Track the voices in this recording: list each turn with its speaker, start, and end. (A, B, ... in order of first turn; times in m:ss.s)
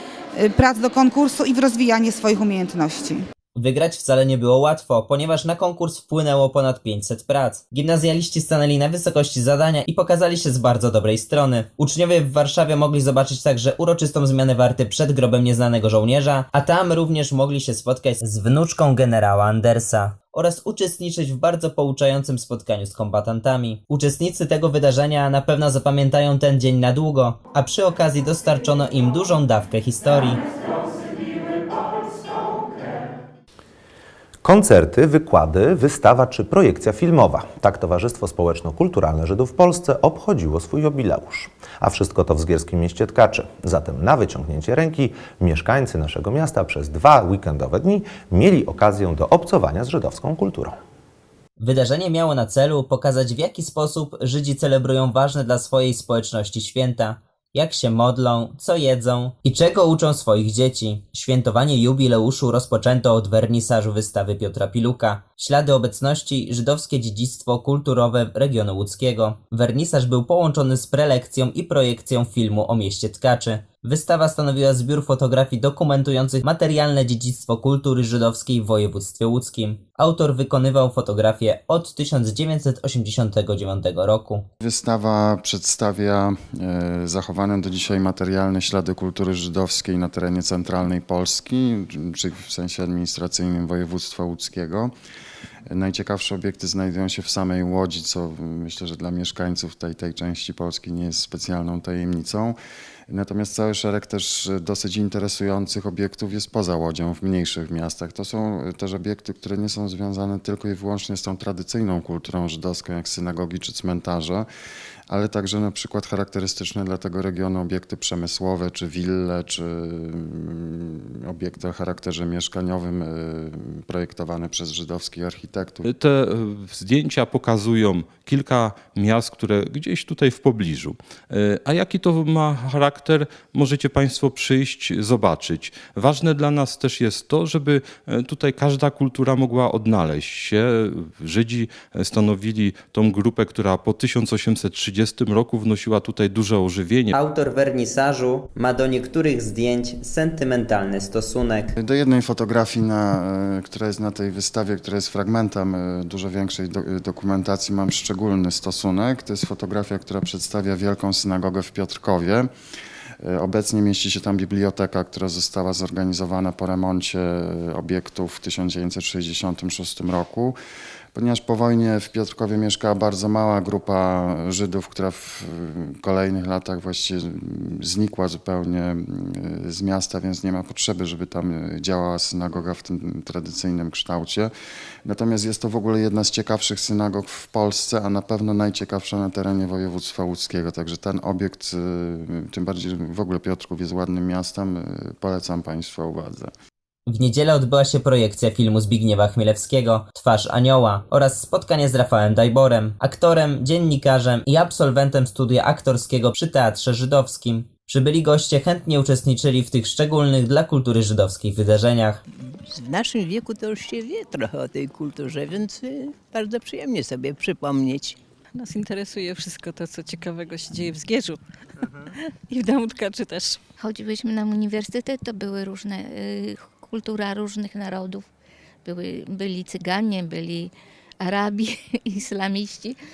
0:00.4-0:03.2 A
0:03.6-0:30.4 B
0:34.4-0:50.8 C
0:51.6-1:24.5 B
1:24.6-1:34.9 D
1:35.7-1:42.6 D
1:43.1-1:54.5 D
1:55.1-2:05.9 D
2:05.8-2:27.1 E
2:27.1-2:31.7 B
2:31.8-2:42.5 D
2:43.2-2:50.6 D
2:51.1-3:04.5 D
3:05.0-3:16.5 D
3:17.1-3:32.2 B
3:32.8-3:38.1 F
3:38.6-3:41.3 G
3:42.5-3:43.6 G
3:43.8-3:48.2 H
3:48.8-3:53.0 H